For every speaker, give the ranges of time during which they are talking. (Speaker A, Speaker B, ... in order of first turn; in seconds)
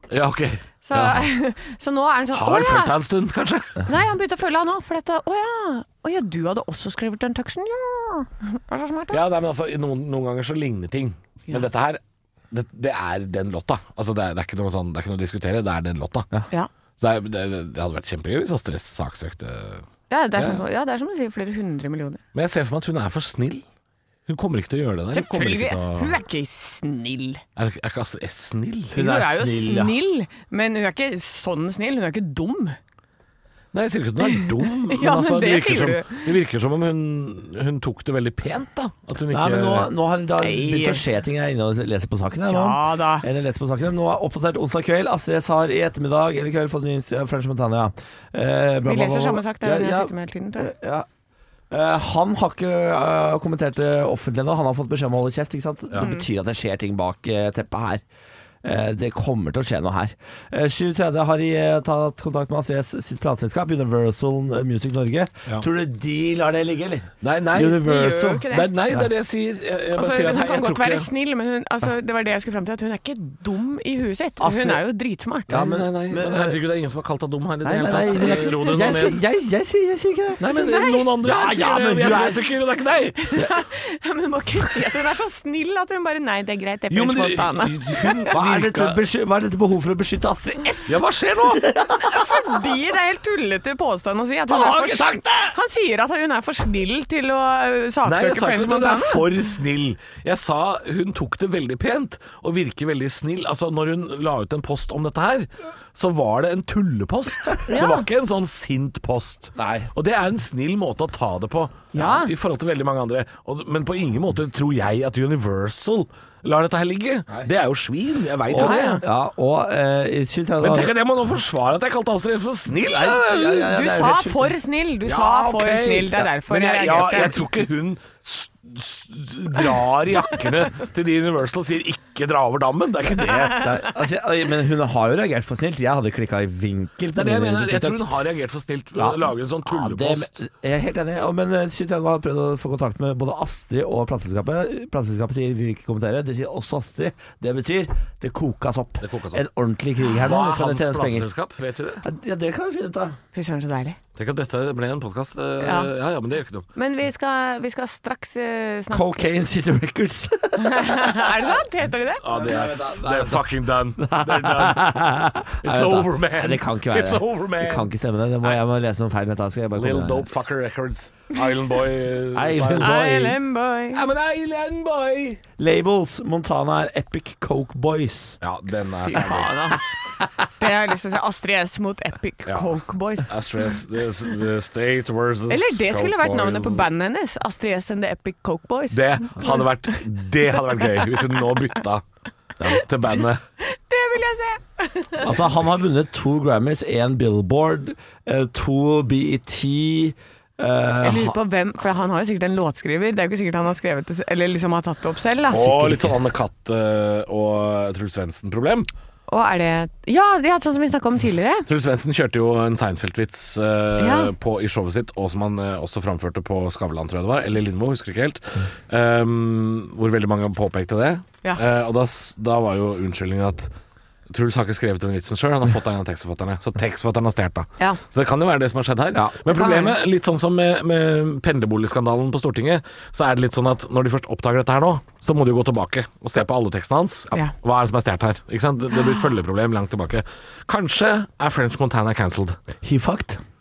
Speaker A: 0.1-1.2, 2.3-3.8, 9.1-12.0, 12.5-16.3, 17.0-20.6, 22.3-23.6, 24.3-26.2, 27.6-29.0, 33.7-39.9, 67.2-71.1, 75.5-79.2, 80.4-83.2, 86.9-89.0, 90.9-91.7, 98.0-119.0, 120.6-123.6, 125.0-133.8, 137.2-140.4, 149.0-149.4, 150.1-152.1, 154.2-156.7, 162.2-164.8, 165.6-167.9, 169.8-173.0, 173.9-175.4, 178.4-179.6, 182.5-186.9, 188.9-192.0, 192.6-193.4, 205.5-208.9, 211.7-223.7, 224.3-242.6
Speaker B: 0.8-2.9, 3.8-9.2, 20.1-22.2, 25.1-27.4, 28.9-32.8, 34.2-36.3, 40.4-41.0, 42.5-43.3, 48.9-50.7, 56.0-56.3, 67.8-68.7, 70.0-75.6, 78.0-78.6, 80.5-81.1, 83.2-88.3, 92.0-99.3, 107.7-108.1, 111.9-112.3, 118.6-119.0, 123.4-127.5, 133.2-133.7, 153.3-154.0, 155.6-155.9, 156.8-159.1, 160.6-162.2, 172.8-174.0, 179.1-180.0, 180.6-183.4, 185.5-190.0, 190.8-191.5, 192.7-195.3, 201.0-206.0, 209.3-211.7, 214.0-214.3, 229.5-230.0, 238.9-239.2
Speaker C: 28.9-30.0, 39.3-51.1, 51.7-58.0, 58.6-69.0, 74.4-74.8, 75.5-76.6, 77.6-82.5, 88.3-92.5, 94.5-95.5, 109.6-109.9, 118.5-120.9, 122.8-124.5, 133.5-138.2, 139.0-151.3, 152.0-153.2, 158.9-161.4, 162.3-163.4, 164.0-170.3, 172.3-173.4, 175.6-178.4, 195.2-201.3, 229.2-229.4, 242.8-243.4